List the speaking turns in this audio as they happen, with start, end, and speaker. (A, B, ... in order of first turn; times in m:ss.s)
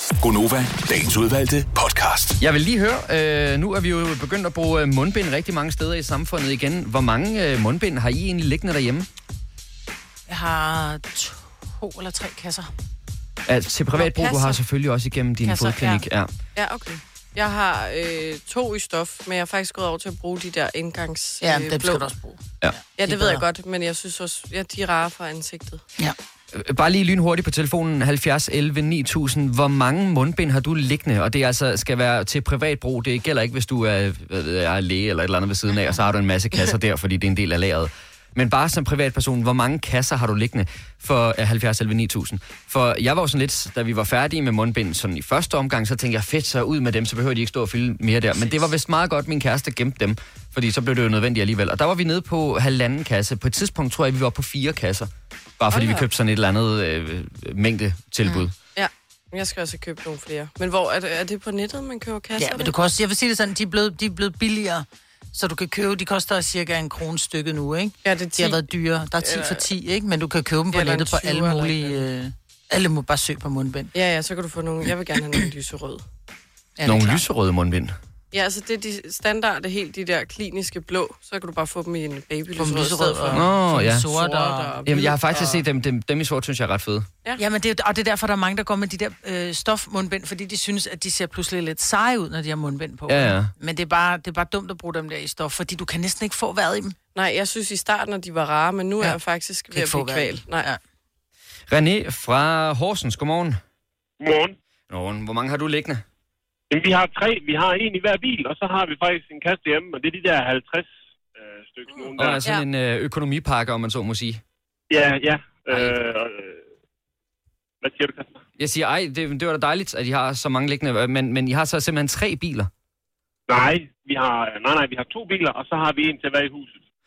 0:00.2-0:02.4 A
0:02.4-0:09.1 B
0:10.3-0:12.7 C
0:13.5-0:16.3 B
0:14.0-0:14.6 D
0:15.4-0:16.0 C
0:16.6-0:22.1 D
0:21.4-0:22.4 C
0:23.0-0:25.8 D
0:23.0-0:23.4 C
0:26.5-0:58.5 B
0:55.7-0:56.1 D
0:58.8-1:02.8 D
1:02.4-1:13.9 C
1:08.0-1:09.7 D
1:10.7-1:12.0 D
1:13.9-1:16.0 D
1:16.8-1:17.2 C
1:16.9-1:18.0 B
1:18.3-1:23.5 D
1:22.6-1:24.8 C
1:23.3-1:24.1 B
1:24.1-1:25.6 D
1:24.9-1:27.1 B
1:27.4-1:37.0 C
1:33.1-1:33.5 B
1:37.2-1:40.7 D
1:39.7-1:40.8 C
1:41.7-1:43.6 B
1:44.2-1:44.6 E
1:44.9-1:46.0 B
1:46.7-1:52.4 E
1:52.2-1:54.4 B
1:54.9-1:56.6 E
1:55.7-1:56.0 B
1:57.8-1:58.4 E
1:58.6-2:02.7 B
2:03.5-2:06.8 E